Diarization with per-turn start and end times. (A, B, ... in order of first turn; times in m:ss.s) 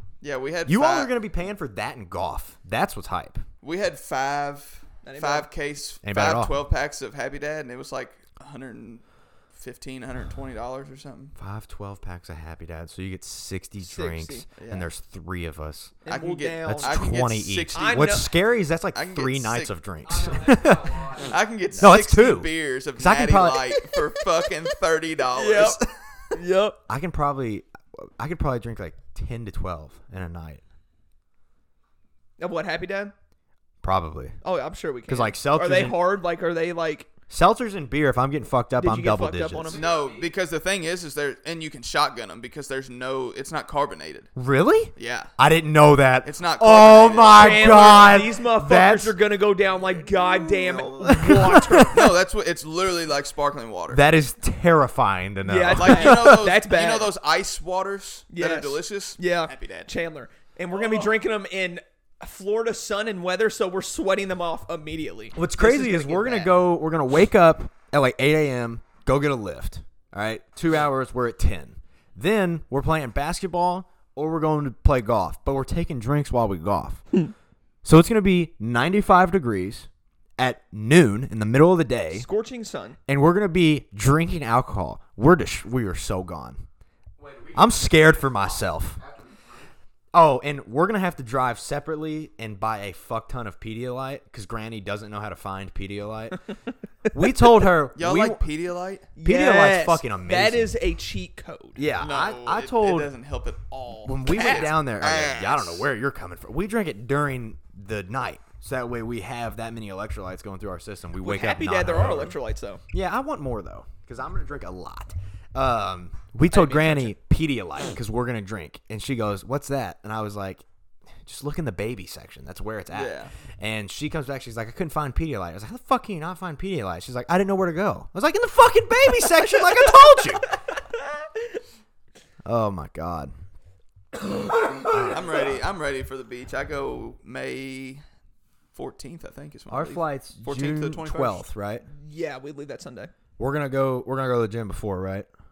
0:00.2-0:01.1 A
0:00.6-0:03.4 B
0:03.6-0:09.0 A
0:05.0-0:05.5 C
0:06.0-0:06.6 B
0:09.5-0:11.3 A
0:11.4-0:16.0 B
0:13.8-0:14.4 C
0:14.6-0:14.9 A
0:16.0-0:17.0 C
0:16.1-0:18.2 A
0:16.6-0:23.8 B
0:17.7-0:18.3 C
0:18.9-0:19.7 A
0:20.0-0:21.4 D
0:21.2-0:26.0 A
0:25.3-0:25.8 C
0:26.3-0:26.8 C
0:26.9-0:30.6 B
0:32.4-0:33.1 C
0:33.8-0:34.4 B
0:34.4-0:37.1 C
0:35.1-0:36.0 B
0:37.3-0:39.8 B
0:38.8-0:39.8 C
0:39.7-0:40.3 D
0:39.7-0:44.3 A
0:44.4-0:49.2 B
0:45.0-0:45.3 A
0:46.2-0:48.0 A
0:47.3-0:52.0 C
0:50.8-0:52.1 B
0:51.9-0:54.1 A
0:53.9-0:56.5 B
0:55.4-0:57.1 C
0:55.7-0:59.9 A
0:58.3-1:06.6 C
1:00.8-1:01.1 A
1:05.3-1:17.0 B
1:17.8-1:22.2 B
1:22.1-1:23.0 C
1:23.1-1:26.6 B
1:27.2-1:29.7 D
1:27.5-1:29.0 B
1:30.1-1:36.4 B
1:37.1-1:38.4 B
1:37.9-1:39.1 A
1:39.2-1:41.8 C
1:39.2-1:40.7 B
1:41.8-1:43.1 B
1:42.0-1:45.8 A
1:44.0-1:52.4 B
1:44.2-1:44.6 C
1:51.2-1:52.8 C
1:52.9-2:00.6 B
1:56.5-1:57.1 C
2:01.2-2:10.6 B
2:02.9-2:03.3 A
2:12.4-2:13.3 B
2:14.7-2:18.0 A
2:14.8-2:15.6 B
2:18.7-2:21.4 A
2:19.7-2:21.8 B
2:21.9-2:23.1 C
2:23.4-2:25.3 B